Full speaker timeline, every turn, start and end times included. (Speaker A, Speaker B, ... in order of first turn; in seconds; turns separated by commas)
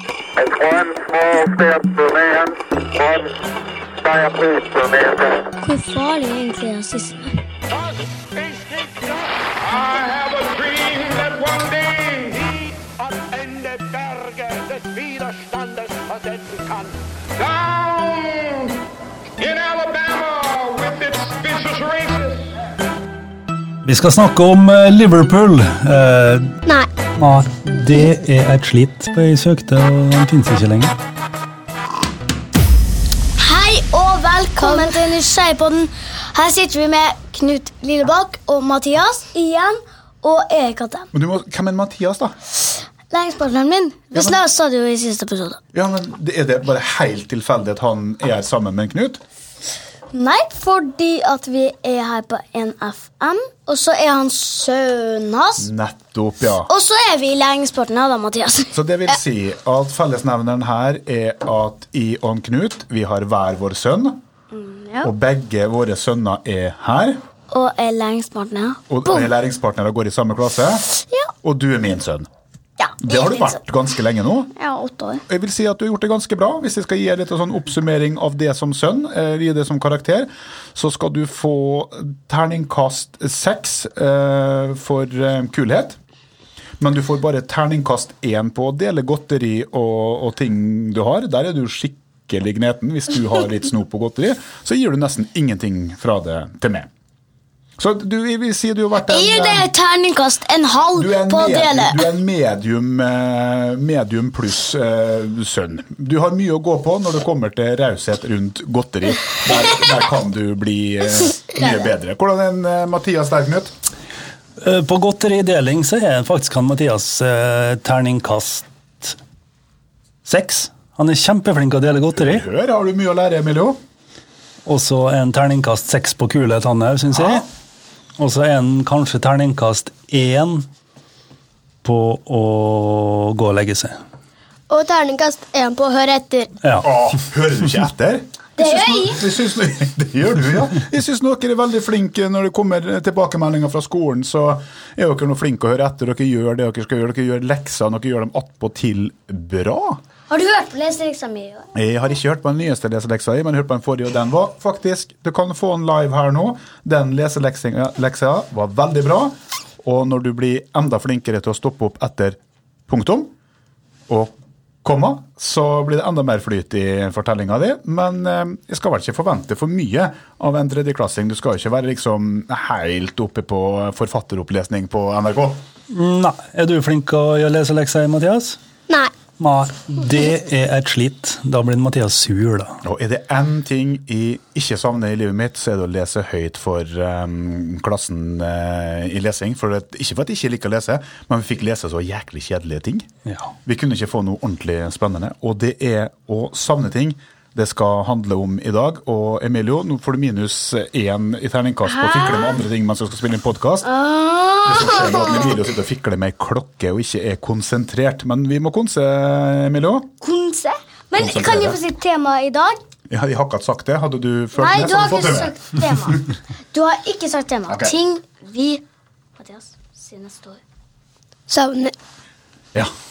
Speaker A: 0.4-3.4, Speaker A: 4.0-5.5, Speaker B: 5.6-7.4, Speaker C: 7.7-18.8, Speaker C: 19.4-22.5, Speaker D: 23.8-26.6, Speaker D: 27.2-30.9, Speaker B: 33.4-41.1, Speaker E: 34.6-34.9, Speaker F: 41.1-42.4, Speaker B: 42.7-45.6, Speaker F: 44.1-44.4, Speaker F: 45.7-49.2, Speaker B: 50.1-55.7, Speaker F: 55.6-56.7, Speaker B: 56.7-58.7, Speaker F: 58.7-64.2, Speaker B: 64.5-65.1, Speaker F: 65.0-67.2, Speaker B: 67.5-69.3, Speaker F: 68.9-70.9, Speaker F: 71.4-72.3, Speaker B: 72.8-73.6, Speaker F: 73.0-74.5, Speaker B: 74.5-75.2, Speaker F: 75.3-86.0, Speaker F: 86.8-96.9, Speaker F: 97.8-99.7, Speaker B: 99.1-102.0, Speaker F: 101.0-113.7, Speaker D: 114.6-119.2, Speaker D: 120.2-122.4, Speaker F: 122.2-123.8, Speaker D: 124.7-127.5, Speaker D: 128.2-130.7, Speaker D: 131.8-134.0, Speaker E: 134.7-136.6, Speaker D: 136.6-136.9, Speaker F: 136.8-150.0, Speaker B: 138.6-139.2, Speaker B: 150.3-151.7, Speaker F: 151.7-163.3, Speaker F: 164.1-175.6, Speaker D: 175.9-178.6, Speaker D: 179.4-182.8, Speaker F: 182.8-193.1, Speaker D: 193.3-193.5, Speaker F: 193.7-203.9, Speaker B: 201.8-202.6, Speaker B: 203.8-205.6, Speaker F: 204.6-210.1, Speaker B: 210.2-212.8, Speaker F: 211.2-211.8, Speaker F: 213.1-216.2, Speaker B: 214.6-218.8, Speaker F: 217.7-218.0, Speaker B: 219.4-220.6, Speaker E: 221.5-221.9